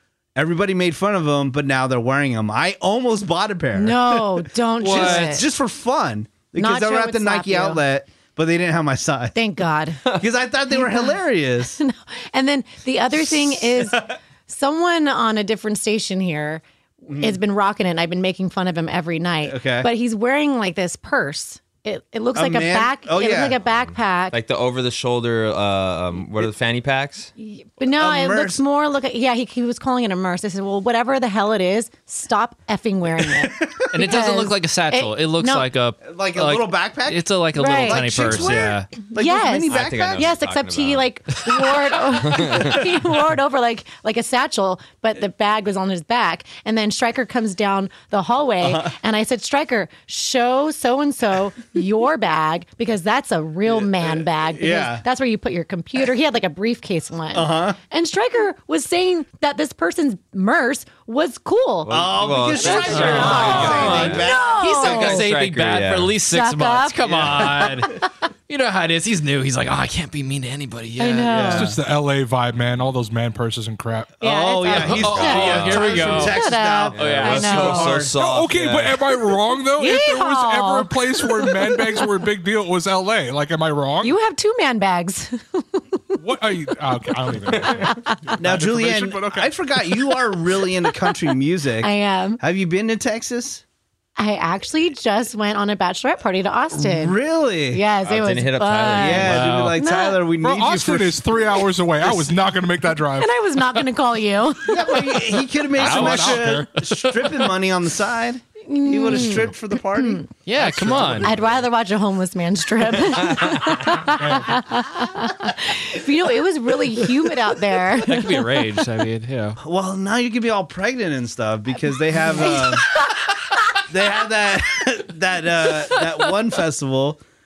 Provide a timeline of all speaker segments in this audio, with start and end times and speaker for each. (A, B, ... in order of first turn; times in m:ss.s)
0:00.4-0:09.4 A
0:03.7-0:05.5 B
0:04.8-0:05.4 C
0:06.6-0:07.8 B
0:09.4-0:10.1 B
0:10.0-0:11.8 A
0:10.7-0:11.2 B
0:11.7-0:24.4 B
0:13.5-0:14.1 A
0:17.1-0:17.4 A
0:19.4-0:19.9 A
0:22.4-0:23.6 A
0:24.3-0:27.3 D
0:27.4-0:35.7 B
0:27.9-0:28.6 A
0:33.2-0:34.0 A
0:33.9-0:38.9 C
0:36.0-0:40.3 A
0:37.6-0:38.1 B
0:39.1-1:01.9 B
0:39.7-0:41.1 D
0:42.1-0:42.9 D
0:48.6-0:48.9 A
0:54.5-0:55.0 A
0:57.3-0:57.8 A
1:01.8-1:06.1 D
1:01.9-1:04.6 A
1:02.6-1:05.2 B
1:02.8-1:11.5 C
1:06.3-1:07.9 B
1:07.0-1:07.6 A
1:11.0-1:11.7 B
1:11.3-1:11.8 A
1:11.4-1:14.1 E
1:14.2-1:18.0 B
1:14.2-1:18.1 A
1:14.7-1:16.4 C
1:15.0-1:16.0 D
1:16.9-1:19.0 D
1:17.0-1:17.7 C
1:18.1-1:24.1 E
1:19.8-1:22.1 B
1:24.0-1:26.2 B
1:26.2-1:29.5 E
1:27.7-1:28.2 B
1:28.4-1:33.6 A
1:30.8-1:31.2 B
1:31.8-1:32.4 B
1:34.2-1:40.2 B
1:36.7-1:37.8 A
1:38.0-1:39.6 D
1:39.0-1:41.4 A
1:39.3-1:39.7 C
1:40.4-1:43.3 E
1:43.2-1:45.4 B
1:44.7-1:50.2 A
1:45.7-1:46.7 E
1:45.8-1:46.6 C
1:48.6-1:50.3 B
1:50.4-1:51.3 C
1:50.6-1:51.2 E
1:51.2-1:58.5 B
1:53.4-1:53.7 D
1:54.0-1:54.6 E
1:58.0-1:59.6 C
1:59.6-2:02.9 A
2:02.1-2:03.1 B
2:03.9-2:07.2 A